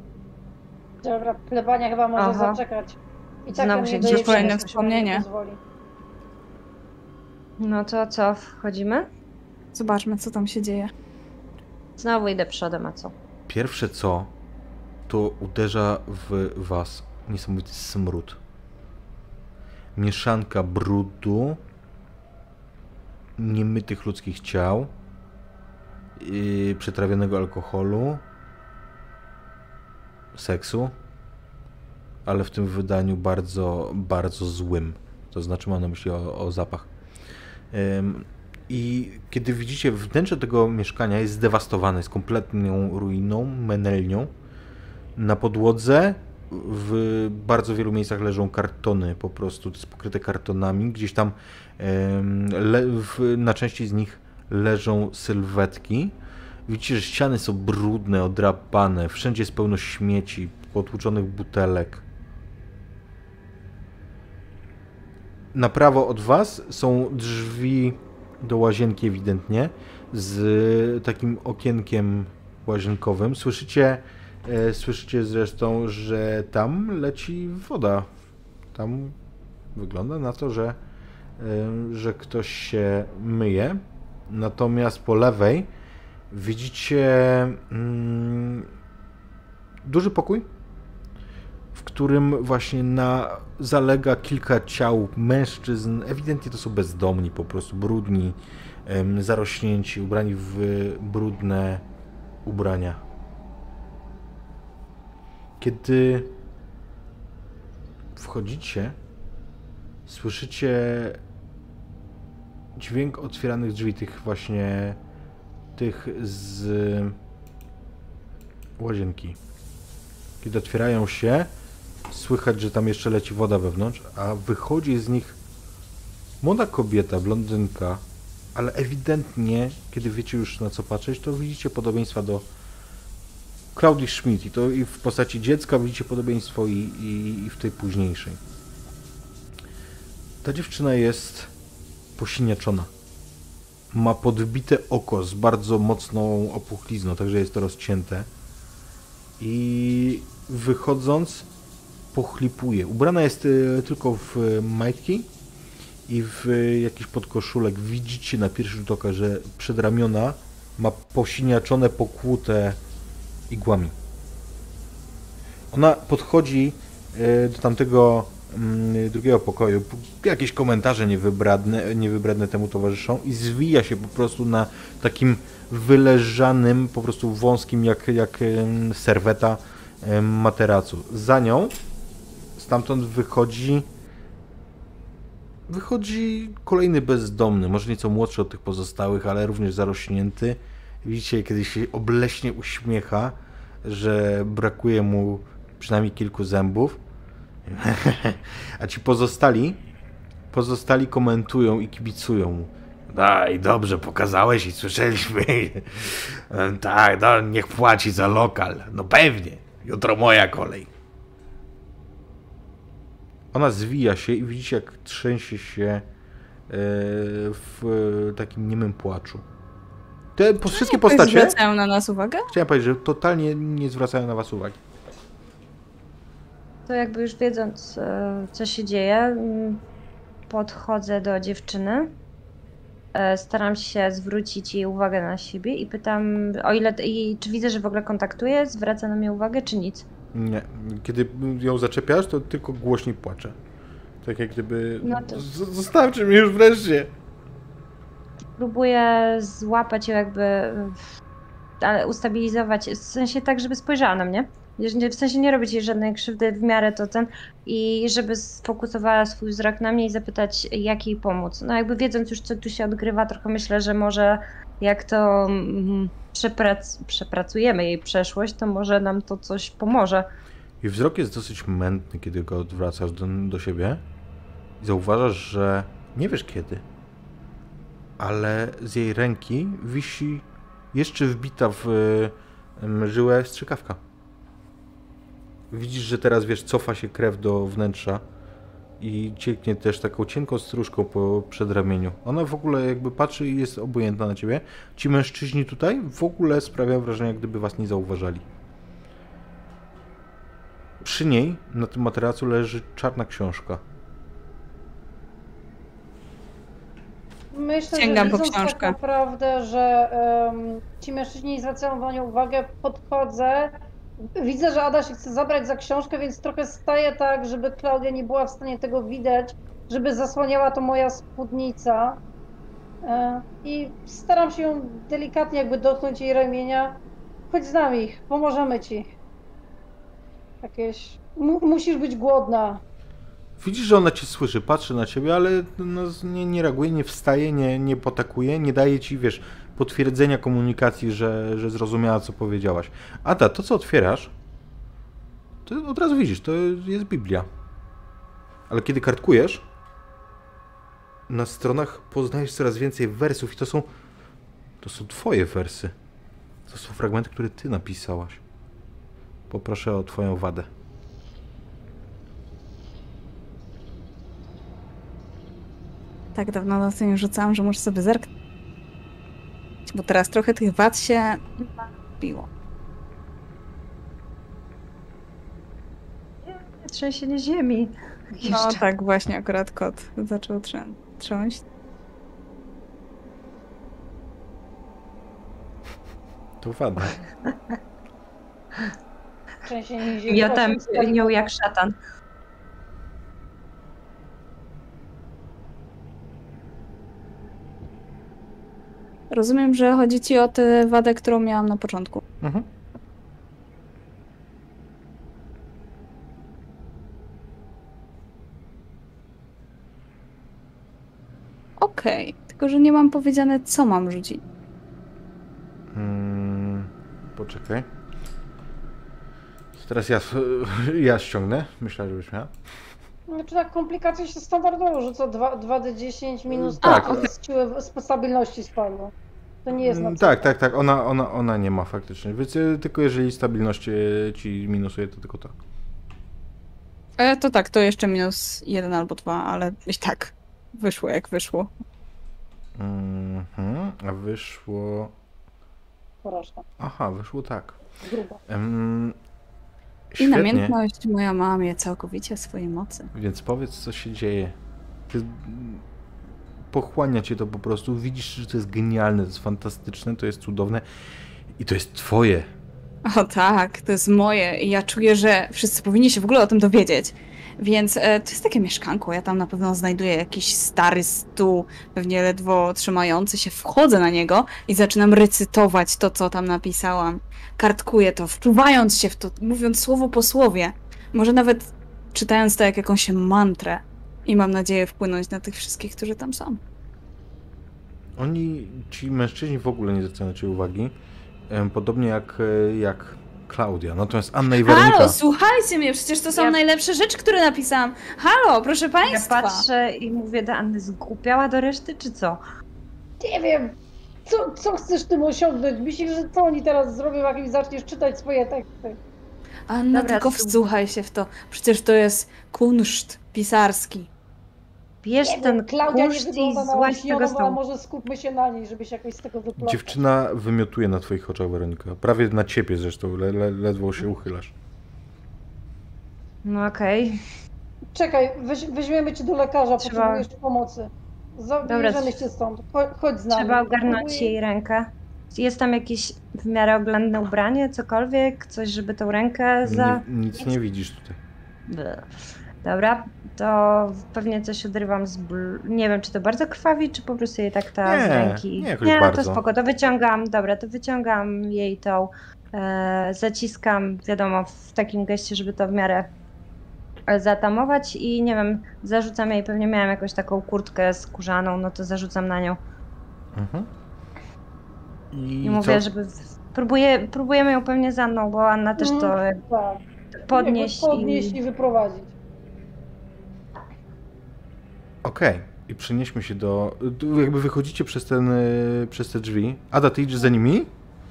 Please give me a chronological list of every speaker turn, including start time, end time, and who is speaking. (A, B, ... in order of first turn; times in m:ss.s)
0:01.0-0:05.6 A
0:02.2-0:02.6 B
0:03.5-0:04.8 B
0:04.0-0:05.2 C
0:07.6-0:09.1 B
0:09.7-0:10.9 C
0:12.0-0:13.1 B
0:13.5-0:14.3 D
0:15.1-0:18.4 D
0:20.0-0:21.6 D
0:23.4-0:24.9 D
0:26.2-0:28.2 D
0:30.3-0:30.9 D
0:32.2-0:36.9 D
0:37.7-0:44.3 D
0:45.2-0:56.1 D
0:56.6-1:02.0 D
1:05.5-1:18.1 D
1:18.7-1:19.2 D
1:19.7-1:20.8 D
1:21.4-1:25.7 D
1:26.3-1:28.7 D
1:29.8-1:30.5 D
1:31.7-1:41.8 D
1:42.4-1:43.0 D
1:45.6-1:46.3 D
1:48.2-1:49.0 D
1:50.1-1:51.2 D
1:52.8-1:55.0 D
1:55.8-1:57.2 D
1:58.8-1:59.4 D
2:00.4-2:01.5 D
2:02.1-2:05.4 D
2:06.4-2:08.0 D
2:08.5-2:12.4 D
2:13.7-2:18.4 D
2:20.4-2:21.5 D
2:22.2-2:22.9 D
2:23.9-2:28.3 D
2:29.4-2:31.5 D
2:32.1-2:35.3 D
2:36.1-2:42.8 D
2:43.5-2:43.9 D
2:45.7-3:01.7 D
3:02.6-3:03.9 D
3:05.7-3:17.0 D
3:17.6-3:19.8 D
3:20.5-3:30.9 D
3:33.5-3:36.0 D
3:36.7-3:39.4 D
3:40.4-3:41.6 D
3:40.7-3:42.5 C
3:42.5-3:44.8 D
3:46.9-3:49.8 B
3:50.5-3:52.1 B
3:53.1-4:00.1 B
4:00.3-4:03.6 D
4:04.2-4:07.1 D
4:05.0-4:05.4 B
4:08.6-4:11.0 B
4:11.8-4:30.3 B
4:30.8-4:34.0 D
4:34.8-4:36.8 D
4:38.2-4:44.0 D
4:45.7-4:48.2 D
4:49.0-4:58.4 D
5:01.0-5:03.8 D
5:07.5-5:22.2 A
5:07.9-5:09.0 C
5:23.0-5:27.0 A
5:27.5-5:29.1 A
5:30.6-5:32.8 A
5:33.6-5:44.3 D
5:45.6-5:47.5 D
5:48.7-5:49.6 D
5:51.3-5:53.9 D
5:54.8-5:55.9 D
5:56.7-5:58.4 D
5:59.5-6:00.7 D
6:06.3-6:08.3 C
6:09.9-6:12.5 C
6:16.4-6:18.8 B
6:18.4-6:21.6 C
6:26.6-6:27.2 D
6:29.6-6:31.5 A
6:30.3-6:31.9 B
6:39.3-6:42.2 C
6:42.4-6:42.7 D
6:51.8-6:54.4 C
6:55.9-6:57.9 D
6:59.7-7:02.5 D
7:03.3-7:09.1 A
7:06.5-7:07.3 D
7:06.8-7:07.3 C
7:09.6-7:10.6 A
7:09.7-7:15.5 D
7:17.2-7:21.7 C
7:22.8-7:25.1 D
7:26.2-7:26.6 A
7:26.8-7:27.8 D
7:28.0-7:28.4 A
7:28.5-7:29.2 D
7:30.1-7:30.7 D
7:30.2-7:33.1 C
7:33.1-7:34.6 D
7:35.1-7:35.8 D
7:36.7-7:40.8 D
7:41.6-7:42.5 D
7:43.0-8:06.6 C
8:08.2-8:10.9 D
8:11.5-8:15.2 D
8:14.6-8:19.6 C
8:19.0-8:22.4 B
8:23.2-8:29.0 A
8:29.7-8:34.1 C
8:29.9-8:30.6 B
8:35.0-8:37.6 B
8:35.2-8:40.0 A
8:39.6-8:44.5 D
8:46.4-8:47.2 B
8:47.9-8:54.3 A
8:49.8-8:50.2 B
8:51.6-8:52.1 B
8:53.3-9:00.0 B
8:59.6-9:01.2 D
9:01.7-9:16.1 B
9:07.8-9:09.4 D
9:17.1-9:22.6 B
9:23.3-9:23.7 D
9:25.1-9:25.8 D
9:25.4-9:29.4 B
9:28.8-9:29.8 A
9:30.2-9:31.4 B
9:30.3-9:32.1 A
9:35.0-9:40.7 D